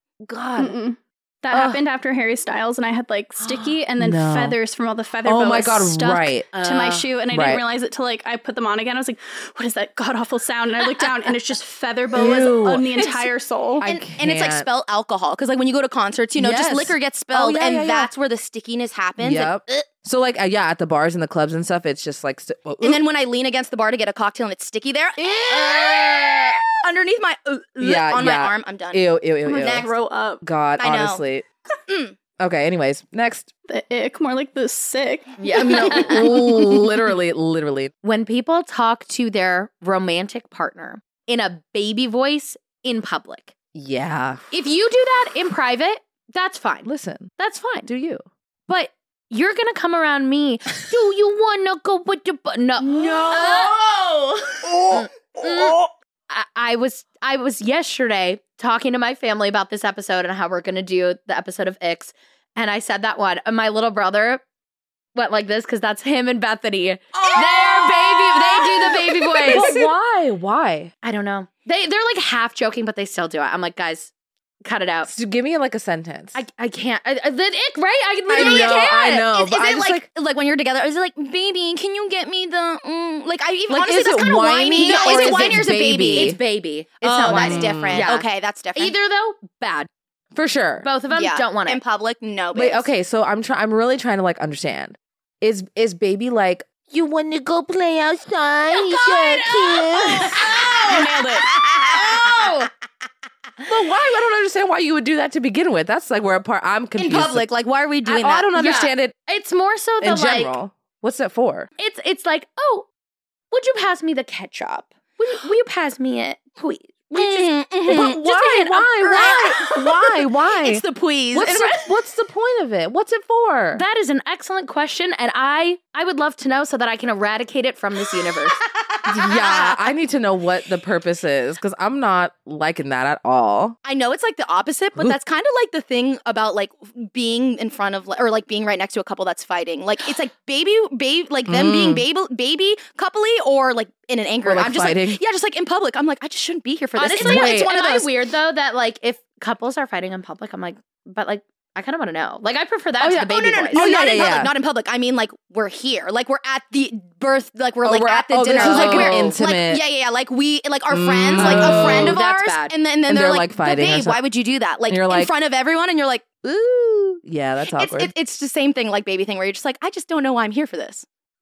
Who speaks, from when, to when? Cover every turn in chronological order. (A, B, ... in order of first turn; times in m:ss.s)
0:00.2-0:00.8 A
0:00.6-0:13.8 B
0:01.5-0:01.8 A
0:03.4-0:04.6 A
0:05.2-0:06.6 A
0:06.5-0:07.0 C
0:07.3-0:07.6 A
0:12.1-0:12.9 A
0:13.8-0:14.7 A
0:13.8-0:19.8 D
0:16.4-0:18.1 A
0:19.2-0:23.0 A
0:22.8-0:29.9 D
0:25.2-0:26.6 A
0:27.8-0:29.9 A
0:29.4-0:30.4 B
0:30.4-0:31.4 A
0:30.8-0:31.2 D
0:31.9-0:32.1 D
0:32.4-0:33.5 A
0:33.7-0:36.6 B
0:35.4-0:36.4 C
0:35.6-0:37.9 A
0:38.0-0:43.5 C
0:43.7-0:44.4 A
0:44.5-0:47.9 C
0:46.8-0:47.3 A
0:47.8-0:48.2 A
0:48.7-0:53.7 C
0:52.8-0:55.8 D
0:53.2-0:53.7 A
0:54.9-1:04.4 C
1:05.1-1:09.8 C
1:07.1-1:09.7 D
1:07.3-1:07.7 A
1:09.3-1:10.9 A
1:11.0-1:14.1 C
1:14.6-1:15.1 C
1:15.0-1:16.4 A
1:16.3-1:19.3 C
1:18.3-1:20.0 A
1:18.3-1:26.4 D
1:23.7-1:26.4 A
1:24.7-1:29.9 C
1:27.0-1:28.9 D
1:27.2-1:28.1 A
1:30.3-1:30.9 A
1:30.8-1:31.8 C
1:31.1-1:32.9 D
1:32.5-1:42.3 A
1:38.7-1:42.5 D
1:42.2-1:42.7 C
1:43.6-1:47.4 A
1:47.0-1:48.5 D
1:48.0-1:49.1 A
1:48.5-1:50.6 C
1:50.0-1:51.7 A
1:51.8-1:52.9 C
1:53.5-1:57.5 C
1:57.1-2:01.8 D
1:57.9-2:03.8 A
2:03.7-2:08.6 C
2:08.8-2:09.8 D
2:09.0-2:13.8 A
2:13.8-2:28.1 D
2:21.5-2:22.0 A
2:24.4-2:25.2 A
2:27.0-2:33.9 C
2:27.2-2:27.7 A
2:33.0-2:34.5 A
2:33.3-2:46.3 D
2:37.8-2:39.8 A
2:38.5-2:39.4 C
2:40.9-2:42.2 A
2:41.4-2:42.7 C
2:43.1-2:44.2 A
2:44.9-2:45.3 A
2:46.4-2:48.1 A
2:47.7-2:51.0 D